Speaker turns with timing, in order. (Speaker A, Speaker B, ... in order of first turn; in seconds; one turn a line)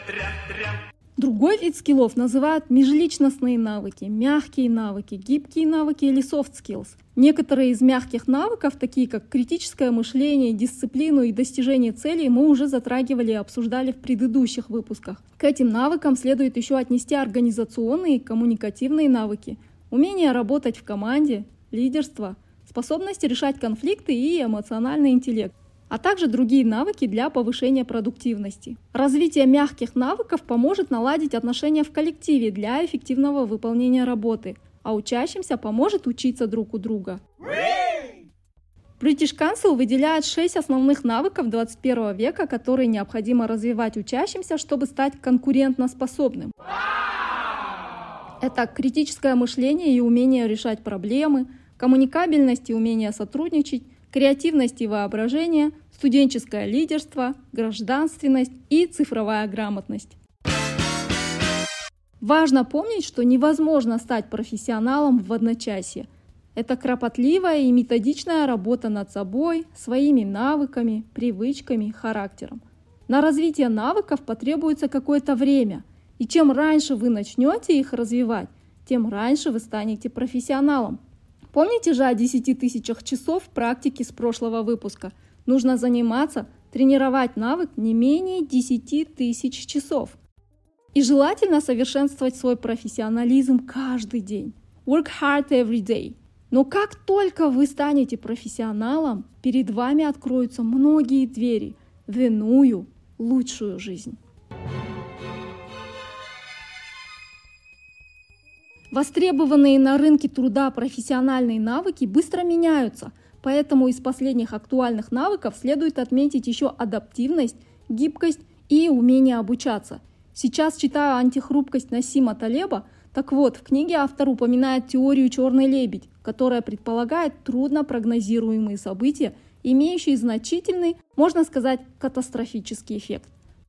Speaker A: 1.2-37.2
Speaker A: 39.0-46.5
Speaker A: 48.4-60.2
Speaker A: 62.2-81.0
Speaker A: 81.5-90.2
Speaker A: 90.9-104.2
Speaker A: 108.9-133.3